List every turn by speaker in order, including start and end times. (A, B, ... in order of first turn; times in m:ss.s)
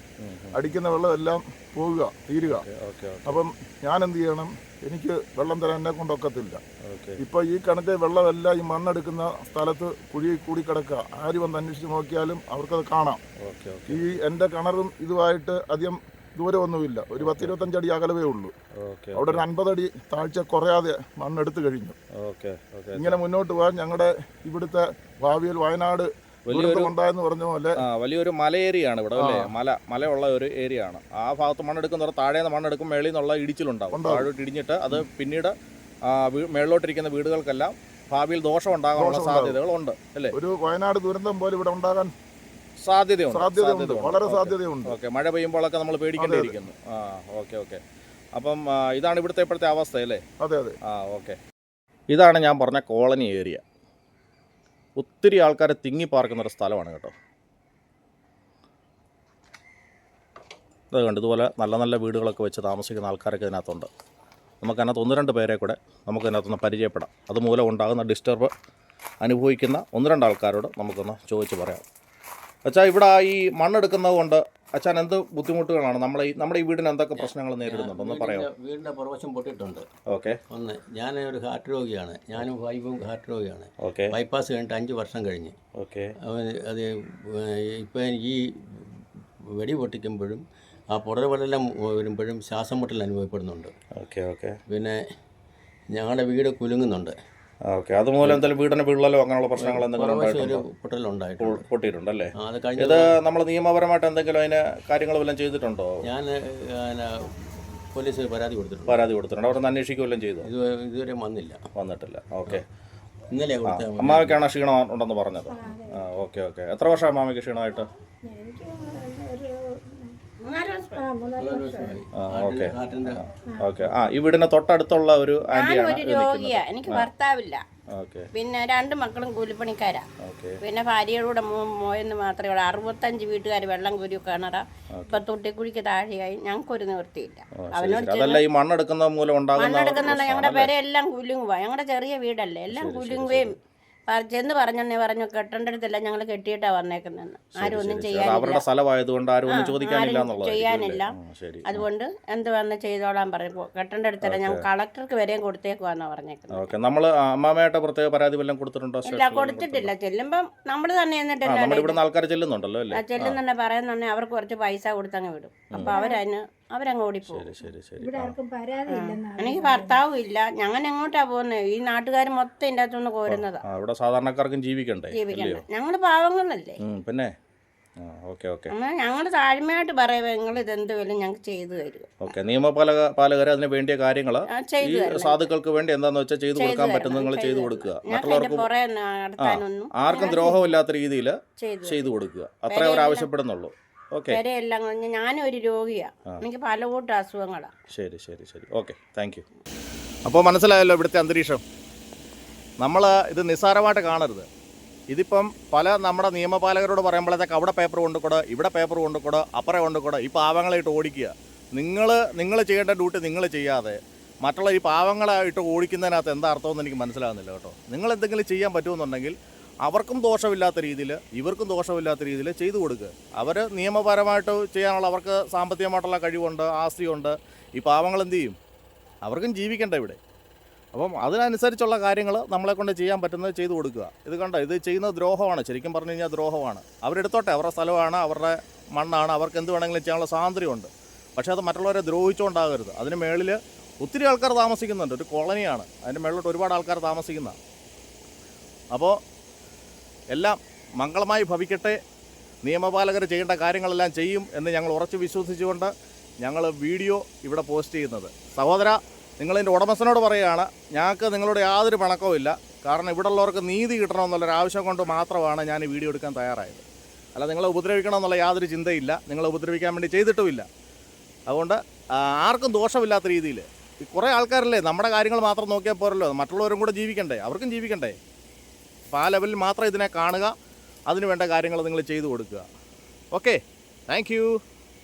0:00.2-0:00.8 A
0:00.5-0:02.7 B
0:02.4-0:03.4 A
0:03.2-0:06.6 B
0:06.8-0:07.2 A
0:07.2-0:13.2 B
0:13.4-0:14.2 A
0:13.9-0:18.5 B
0:17.2-0:17.7 A
0:18.8-0:19.4 A
0:19.1-0:22.0 B
0:22.2-0:23.2 A
0:22.9-0:27.8 B
0:26.5-0:26.9 A
0:27.8-0:40.4 A
0:29.2-0:29.5 B
0:33.9-0:34.3 B
0:39.0-0:39.6 B
0:40.3-0:42.1 B
0:42.8-0:47.8 A
0:43.3-0:45.0 B
0:46.2-0:46.6 B
0:48.4-0:50.2 A
0:50.4-0:50.8 B
0:50.9-0:51.4 A
0:52.1-0:53.6 A
0:55.0-0:57.1 A
1:00.9-1:03.9 A
1:04.6-1:08.5 A
1:09.2-1:11.8 A
1:12.6-1:18.5 A
1:17.2-1:19.9 C
1:20.1-1:20.4 A
1:20.5-1:25.6 C
1:23.8-1:24.1 A
1:25.8-1:26.1 A
1:26.2-1:33.7 C
1:33.9-1:34.6 A
1:34.7-1:35.0 C
1:35.9-1:37.2 C
1:37.7-1:40.6 A
1:39.6-1:41.7 C
1:41.4-1:46.0 A
1:42.4-1:43.1 C
1:46.0-1:49.0 C
1:48.9-1:50.5 A
1:50.4-1:51.6 C
1:51.8-1:52.6 A
1:53.3-1:54.4 C
1:53.6-1:57.9 A
1:55.5-1:56.1 D
1:58.2-2:00.2 D
2:00.4-2:01.1 E
2:00.9-2:02.0 D
2:01.4-2:03.3 C
2:02.1-2:07.1 A
2:03.4-2:03.6 D
2:05.5-2:07.6 E
2:07.9-2:08.3 A
2:08.3-2:10.0 E
2:10.2-2:10.6 A
2:10.6-2:18.4 E
2:14.9-2:15.2 A
2:17.6-2:20.7 A
2:19.6-2:23.6 E
2:22.7-2:23.6 A
2:24.1-2:28.6 E
2:27.6-2:31.8 A
2:29.5-2:31.1 E
2:31.6-2:36.7 E
2:34.2-2:34.6 A
2:36.5-2:39.9 A
2:39.1-2:42.0 E
2:41.4-2:43.4 A
2:42.9-2:47.5 E
2:45.8-2:46.2 D
2:47.3-2:48.4 A
2:48.0-2:50.0 D
2:48.9-2:53.6 E
2:53.3-2:55.6 A
2:55.1-2:56.8 E
2:56.8-2:57.3 A
2:58.0-2:58.7 A
2:58.7-3:02.2 E
3:02.2-3:08.7 A
3:04.5-3:05.5 E
3:06.6-3:10.6 E
3:09.4-3:14.4 A
3:11.6-3:12.0 E
3:12.7-3:13.3 E
3:14.3-3:17.7 E
3:17.9-3:19.4 A
3:20.2-3:21.6 A
3:22.8-3:24.5 A
3:25.1-3:48.6 A
3:49.2-3:50.2 A
3:50.9-4:07.6 A
4:08.9-4:09.2 A
4:10.3-4:12.0 A
4:12.6-4:30.7 A
4:31.5-4:38.2 A
4:39.1-4:40.5 A
4:41.1-4:42.7 A
4:43.3-4:44.6 A